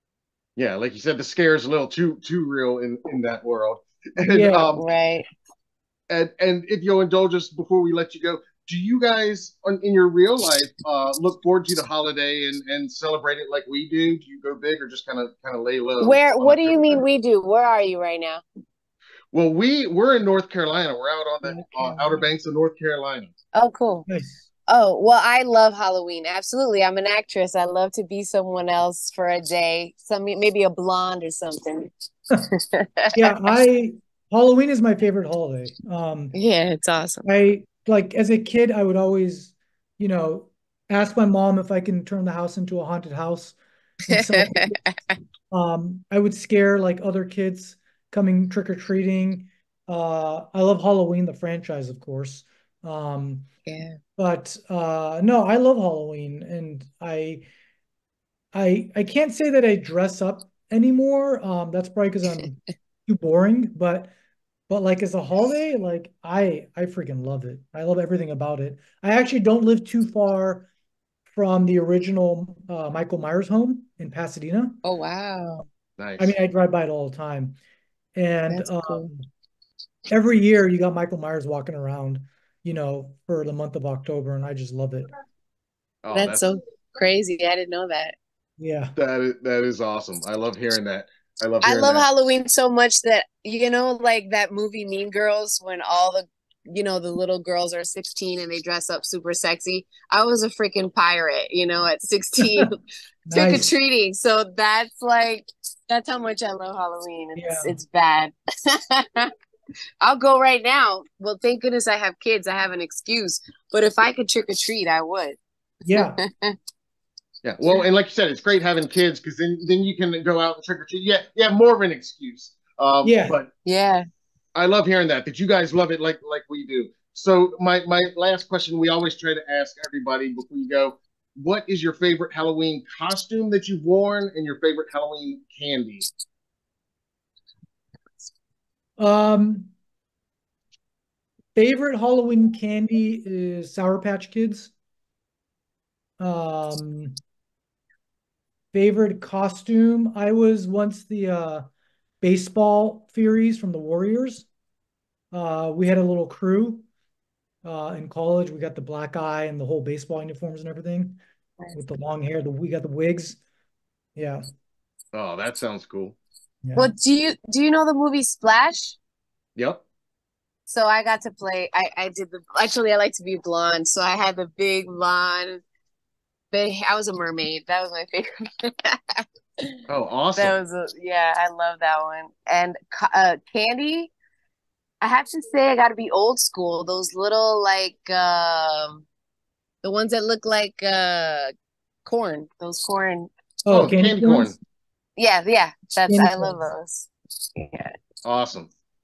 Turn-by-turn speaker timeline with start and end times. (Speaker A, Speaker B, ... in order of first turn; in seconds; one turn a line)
Speaker A: 0.6-4.8
Speaker B: 4.2-4.7
Speaker C: 4.8-5.3
Speaker A: 6.1-17.0
Speaker C: 16.0-18.4
Speaker A: 19.3-23.3
Speaker C: 21.4-22.3
Speaker C: 23.5-24.1
Speaker B: 24.1-24.5
Speaker C: 24.7-33.1
Speaker B: 33.1-36.3
Speaker C: 36.3-37.3
Speaker B: 37.2-44.8
Speaker C: 44.1-45.2
Speaker B: 45.5-53.5
Speaker C: 53.7-54.0
Speaker B: 54.2-57.5
Speaker B: 58.5-64.1
Speaker B: 64.7-70.7
Speaker B: 71.3-74.8
Speaker C: 74.8-75.7
Speaker A: 76.0-76.3
Speaker B: 76.2-77.6
Speaker B: 78.2-79.3
Speaker C: 78.5-79.1
Speaker B: 80.1-85.1
Speaker A: 86.0-86.4
Speaker C: 86.1-88.2
Speaker B: 88.6-89.0
Speaker A: 89.0-92.0
Speaker C: 91.6-102.8
Speaker B: 103.3-103.7
Speaker C: 103.3-109.3
Speaker B: 107.4-107.8
Speaker C: 110.0-115.4
Speaker B: 115.8-116.2
Speaker C: 115.9-116.5
Speaker A: 117.4-123.5
Speaker B: 123.0-123.4
Speaker C: 123.7-124.1
Speaker A: 124.5-136.1
Speaker B: 139.0-139.7
Speaker B: 141.6-144.7
Speaker B: 146.2-147.2
Speaker B: 148.7-151.7
Speaker B: 152.2-154.5
Speaker B: 155.3-156.9
Speaker B: 157.6-161.2
Speaker B: 161.8-163.4
Speaker B: 164.2-164.4
Speaker A: 165.1-166.2
Speaker B: 166.6-166.9
Speaker C: 166.8-169.0
Speaker A: 169.6-169.8
Speaker C: 170.7-175.6
Speaker C: 176.5-179.7
Speaker A: 179.9-180.6
Speaker C: 180.4-184.1
Speaker C: 185.0-189.1
Speaker C: 189.8-191.5
Speaker C: 192.1-193.3
Speaker B: 193.7-194.6
Speaker A: 193.7-194.6
Speaker C: 195.2-197.9
Speaker B: 196.1-196.6
Speaker A: 198.2-198.7